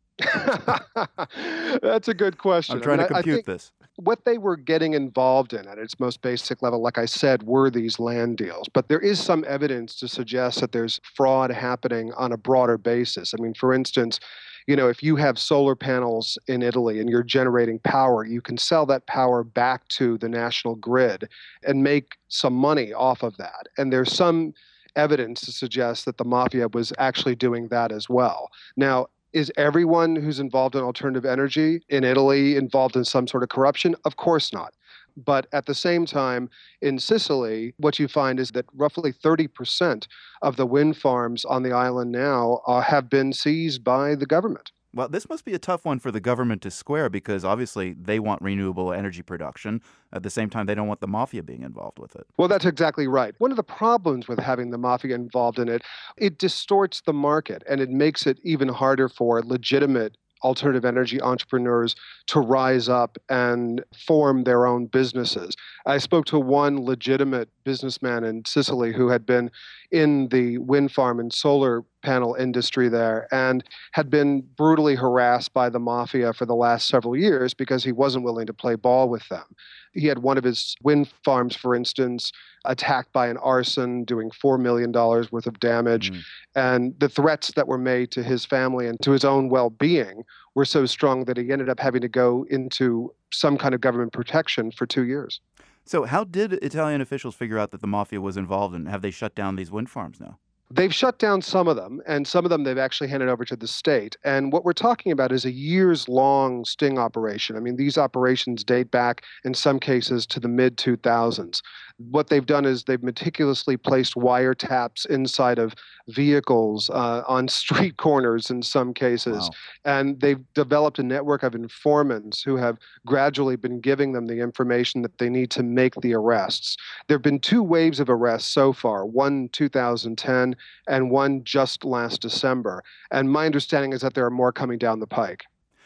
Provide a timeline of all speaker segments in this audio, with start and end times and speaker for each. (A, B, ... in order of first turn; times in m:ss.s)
0:00.2-0:03.4 A
0:02.7-0:03.7 B
0:04.0-0:44.7 A
0:44.9-0:52.3 B
0:52.4-1:35.4 A
1:35.8-1:40.4 B
1:40.7-2:15.5 A